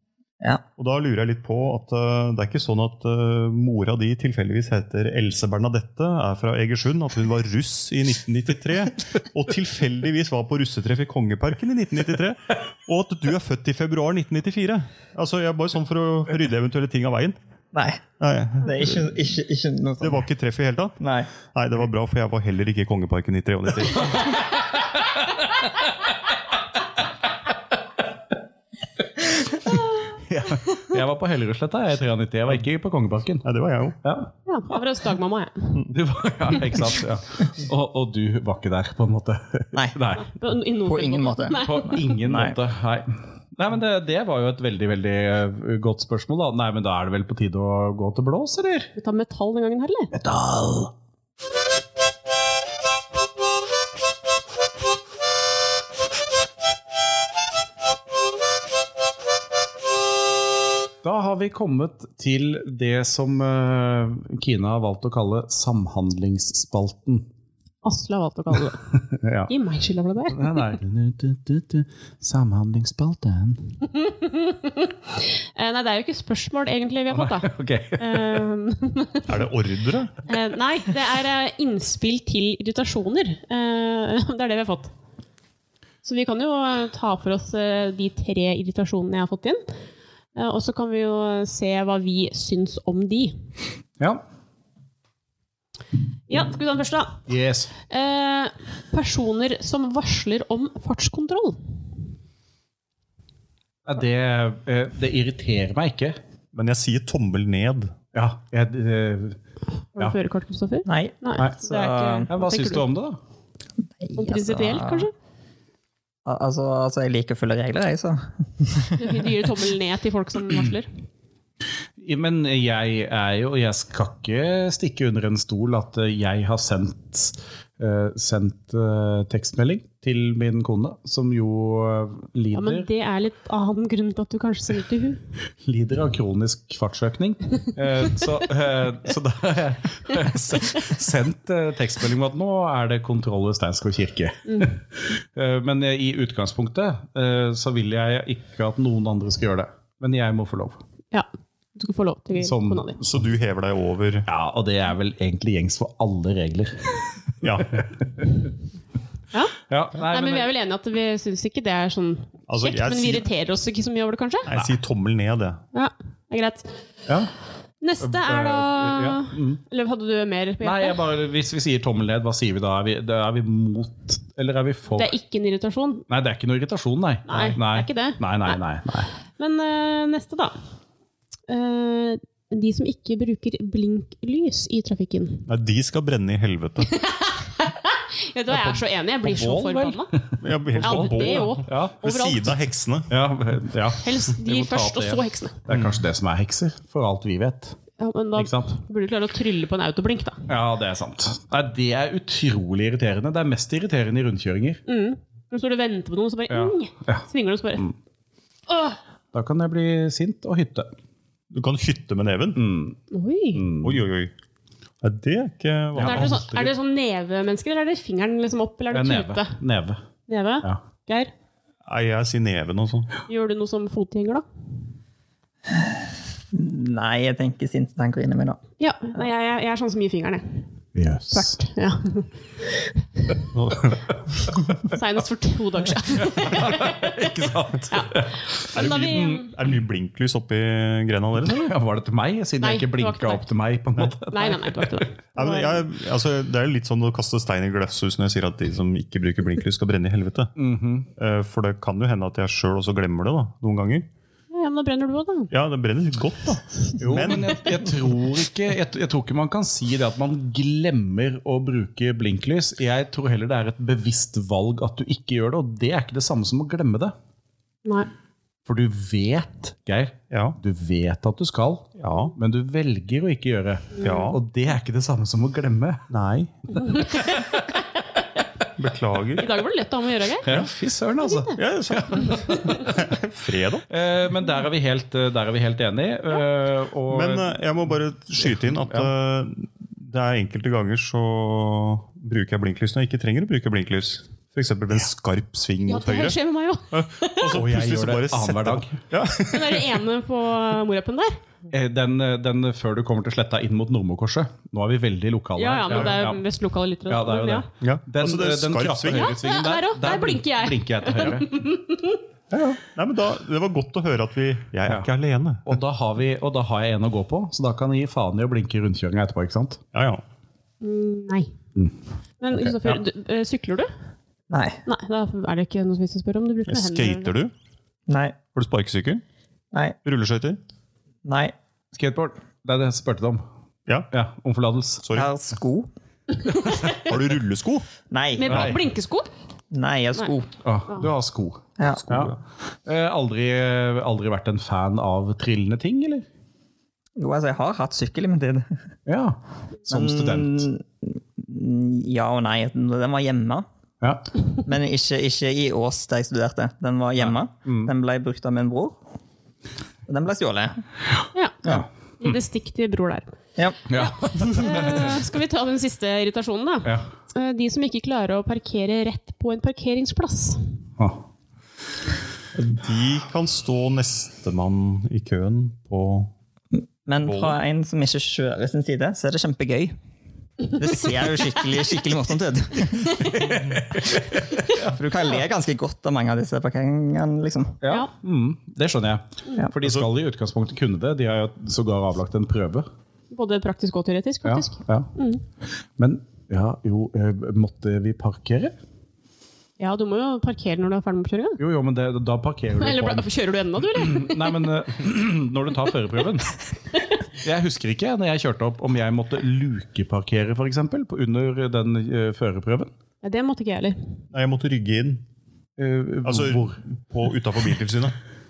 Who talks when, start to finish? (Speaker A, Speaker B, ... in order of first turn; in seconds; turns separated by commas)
Speaker A: 0.8-17.4, Speaker B: 17.7-18.0, Speaker A: 18.2-19.0, Speaker B: 18.6-20.2, Speaker A: 20.0-24.4, Speaker B: 21.0-21.3, Speaker C: 30.1-33.5, Speaker A: 33.4-34.0, Speaker C: 34.0-34.3, Speaker D: 34.5-35.8, Speaker C: 35.9-40.3, Speaker B: 39.7-40.0, Speaker D: 40.3-42.2, Speaker B: 40.8-42.6, Speaker C: 41.6-48.9, Speaker D: 49.0-50.1, Speaker C: 50.1-50.9, Speaker C: 61.0-67.3, Speaker D: 67.8-68.9, Speaker C: 69.0-69.5, Speaker D: 69.5-70.7, Speaker C: 70.3-73.7, Speaker D: 74.0-79.4, Speaker C: 77.1-78.4, Speaker A: 79.3-80.2, Speaker D: 80.3-84.9, Speaker D: 86.0-89.7, Speaker D: 90.4-93.4, Speaker D: 96.3-97.3, Speaker C: 97.3-97.7, Speaker D: 97.9-101.6, Speaker C: 103.8-106.2, Speaker A: 106.5-108.0, Speaker C: 108.1-109.4, Speaker D: 110.0-112.9, Speaker B: 110.9-112.3, Speaker C: 112.3-113.2, Speaker B: 114.0-115.1, Speaker D: 114.2-115.1, Speaker B: 116.2-119.3, Speaker D: 119.0-120.9, Speaker C: 122.0-132.9, Speaker D: 132.5-135.2, Speaker C: 135.6-150.8, Speaker D: 151.1-153.0, Speaker C: 152.4-153.2, Speaker A: 153.0-154.3, Speaker C: 154.3-158.5, Speaker A: 157.4-157.8, Speaker D: 159.3-164.5, Speaker C: 159.7-160.5, Speaker A: 162.5-163.3, Speaker A: 164.5-165.6, Speaker D: 165.7-166.7, Speaker D: 167.8-171.0, Speaker C: 168.0-169.6, Speaker C: 170.6-175.1, Speaker D: 174.9-176.1, Speaker C: 176.1-179.1, Speaker D: 177.3-178.6, Speaker D: 179.4-180.6, Speaker D: 181.5-185.5, Speaker A: 185.5-186.9, Speaker D: 186.9-190.1, Speaker C: 188.5-192.0, Speaker A: 190.4-193.1, Speaker D: 190.8-192.6, Speaker C: 193.1-197.8, Speaker D: 194.0-195.6, Speaker A: 195.7-196.0, Speaker D: 198.0-200.5, Speaker C: 198.4-198.8, Speaker C: 200.5-204.8, Speaker D: 204.9-207.8, Speaker C: 206.5-207.2, Speaker D: 208.7-209.0, Speaker C: 209.3-210.9, Speaker A: 211.5-212.6, Speaker C: 212.6-213.0, Speaker D: 213.1-213.7, Speaker C: 213.5-214.0, Speaker A: 213.8-214.3, Speaker A: 215.0-216.4, Speaker C: 215.9-216.7, Speaker D: 216.0-219.6, Speaker C: 218.9-220.0, Speaker D: 220.3-221.3, Speaker A: 221.9-223.1, Speaker D: 223.3-224.4, Speaker B: 226.5-228.6, Speaker D: 228.8-230.7, Speaker C: 230.9-231.6, Speaker D: 231.3-232.3, Speaker D: 232.8-233.4, Speaker A: 233.5-234.0, Speaker D: 234.9-237.3, Speaker C: 236.2-239.4, Speaker D: 237.9-239.5, Speaker A: 238.7-241.7, Speaker C: 241.4-245.1, Speaker D: 242.6-243.5, Speaker D: 244.3-245.8, Speaker A: 245.3-250.6, Speaker C: 250.6-251.1, Speaker A: 251.2-254.1, Speaker D: 254.5-255.5, Speaker A: 255.5-257.6, Speaker C: 257.0-267.1, Speaker C: 268.7-276.0, Speaker A: 270.3-270.6, Speaker A: 272.0-272.4, Speaker A: 274.0-274.4, Speaker D: 274.0-274.3, Speaker A: 276.1-276.6, Speaker C: 276.9-277.8, Speaker A: 278.8-279.5, Speaker D: 279.4-280.5, Speaker C: 280.4-283.0, Speaker D: 281.2-281.5, Speaker A: 281.6-283.9, Speaker C: 283.9-287.5, Speaker A: 287.1-296.4, Speaker D: 295.9-297.6, Speaker A: 296.9-299.9, Speaker C: 297.5-299.0, Speaker D: 299.4-301.4, Speaker C: 301.7-306.4, Speaker D: 305.6-307.7, Speaker A: 305.9-306.2, Speaker C: 307.1-311.6, Speaker A: 307.8-309.4, Speaker D: 309.1-312.2, Speaker A: 312.5-315.8, Speaker C: 315.7-319.8, Speaker A: 319.9-320.2, Speaker D: 320.8-321.5, Speaker D: 322.4-323.9, Speaker B: 324.5-324.8, Speaker D: 324.9-327.3, Speaker A: 326.7-327.5, Speaker B: 328.1-328.4, Speaker A: 328.6-329.2, Speaker A: 330.1-330.6, Speaker B: 331.2-331.5, Speaker C: 331.9-333.4, Speaker C: 334.1-335.1, Speaker A: 335.0-335.3, Speaker B: 335.1-335.9, Speaker A: 336.9-337.9, Speaker B: 338.1-338.7, Speaker D: 338.4-339.3, Speaker C: 338.5-338.8, Speaker B: 339.7-340.5, Speaker C: 340.6-346.3, Speaker B: 341.8-342.0, Speaker A: 341.9-342.4, Speaker B: 347.2-348.7, Speaker C: 349.1-350.7, Speaker B: 349.9-353.7, Speaker C: 354.0-354.3, Speaker B: 354.6-359.0, Speaker C: 357.2-357.9, Speaker B: 360.1-360.8, Speaker D: 361.3-361.6, Speaker C: 361.7-362.4, Speaker D: 362.2-363.3, Speaker C: 363.9-365.2, Speaker D: 363.9-370.6, Speaker A: 372.5-376.3, Speaker B: 377.1-379.9, Speaker A: 377.2-377.6, Speaker B: 380.7-383.5, Speaker C: 383.2-384.9, Speaker B: 384.6-387.8, Speaker C: 387.8-392.9, Speaker A: 389.8-390.1, Speaker D: 393.3-395.4, Speaker C: 394.4-395.1, Speaker C: 396.0-398.8, Speaker D: 399.8-401.6, Speaker C: 401.6-403.3, Speaker D: 402.8-404.7, Speaker C: 403.8-406.6, Speaker C: 407.4-412.9, Speaker D: 413.2-414.0, Speaker A: 414.3-415.3, Speaker C: 415.8-416.8, Speaker A: 416.2-418.2